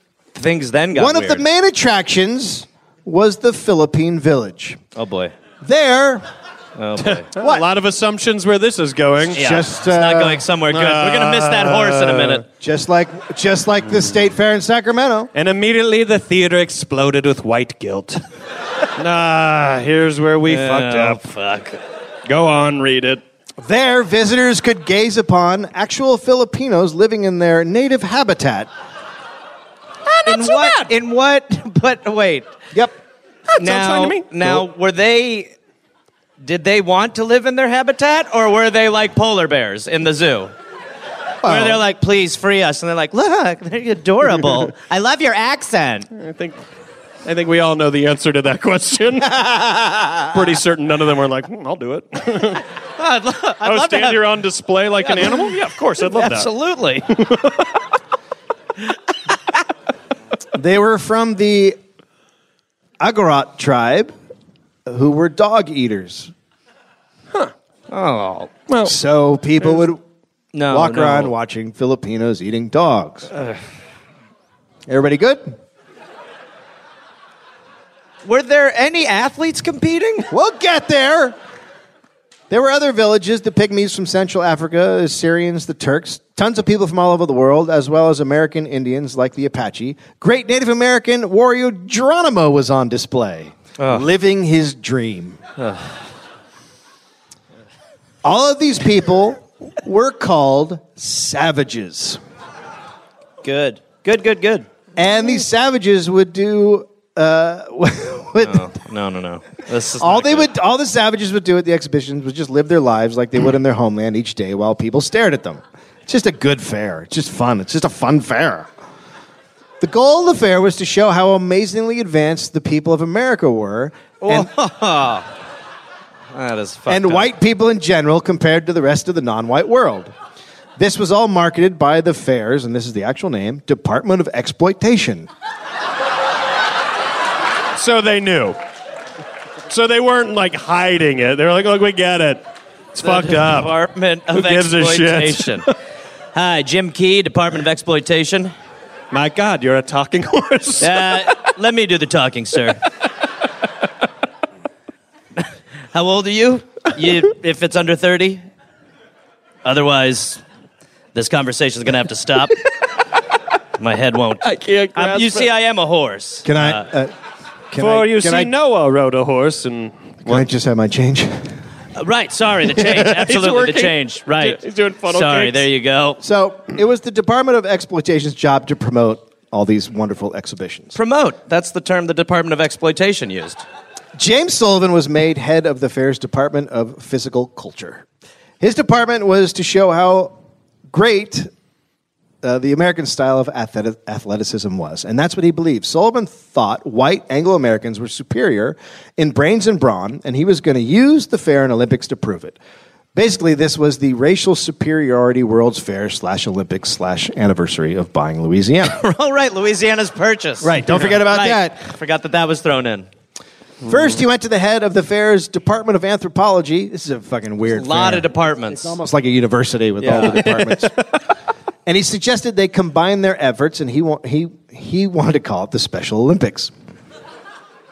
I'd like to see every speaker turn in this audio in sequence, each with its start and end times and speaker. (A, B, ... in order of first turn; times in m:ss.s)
0:00.3-0:01.4 A
0:00.9-0:04.8 B
0:05.0-0:05.3 A
0:05.6-0:06.3 B
0:06.8-0:07.2 A
0:07.0-0:09.4 C
0:07.4-0:07.6 B
0:09.3-0:10.4 B
0:09.3-0:12.4 A
0:10.7-0:12.4 C
0:12.6-0:15.3 B
0:15.3-0:18.2 C
0:19.0-0:21.2 C
0:20.4-0:21.8 A
0:22.2-0:23.2 C
0:23.6-0:28.7 B
0:30.0-0:30.9 C
0:30.2-0:32.5 A
0:33.5-0:34.6 C
0:33.6-0:35.5 A
0:36.4-0:40.5 A
0:41.4-0:41.8 B
0:41.4-0:46.1 A
0:46.1-0:46.6 C
0:47.2-0:49.5 C
0:49.7-0:50.1 A
0:50.3-0:52.6 C
0:53.0-0:54.2 A
0:53.6-0:56.5 C
0:55.0-0:57.1 A
0:57.1-0:57.8 C
1:00.5-1:01.8 B
1:03.0-1:04.1 B
1:04.8-1:06.3 B
1:07.9-1:08.5 A
1:08.7-1:08.9 C
1:08.8-1:10.0 B
1:10.5-1:11.3 A
1:10.7-1:13.3 B
1:13.3-1:13.6 A
1:14.9-1:15.5 B
1:18.2-1:20.3 A
1:20.3-1:21.4 B
1:22.5-1:35.4 B
1:33.8-1:34.0 A
1:35.6-1:35.9 A
1:38.2-1:42.2 B
1:43.4-1:44.7 A
1:45.0-1:48.7 B
1:48.4-1:50.5 A
1:50.0-1:58.7 B
1:59.8-2:04.5 B
2:04.2-2:05.3 A
2:06.3-2:07.3 A
2:06.9-2:10.1 B
2:10.8-2:15.3 B
2:17.7-2:18.6 C
2:19.7-2:23.7 C
2:23.0-2:25.7 A
2:24.3-2:25.7 C
2:26.3-2:28.5 A
2:29.1-2:31.4 C
2:30.8-2:32.8 A
2:35.4-2:38.4 A
2:39.6-2:40.4 A
2:41.1-2:42.6 A
2:43.8-2:46.8 A
2:44.4-2:45.5 C
2:46.4-2:47.1 B
2:47.7-2:48.5 B
2:47.8-2:50.4 C
2:50.2-2:51.5 B
2:52.0-2:56.2 A
2:52.8-2:55.7 C
2:56.2-3:01.0 B
3:00.9-3:03.6 A
3:04.2-3:08.0 B
3:08.6-3:10.3 B
3:10.9-3:11.5 B
3:12.4-3:22.6 B
3:23.1-3:29.0 B
3:28.8-3:33.1 A
3:30.6-3:31.8 B
3:33.8-3:40.9 B
3:37.7-3:38.9 A
3:40.0-3:40.8 A
3:40.1-3:40.6 C
3:41.8-3:46.7 B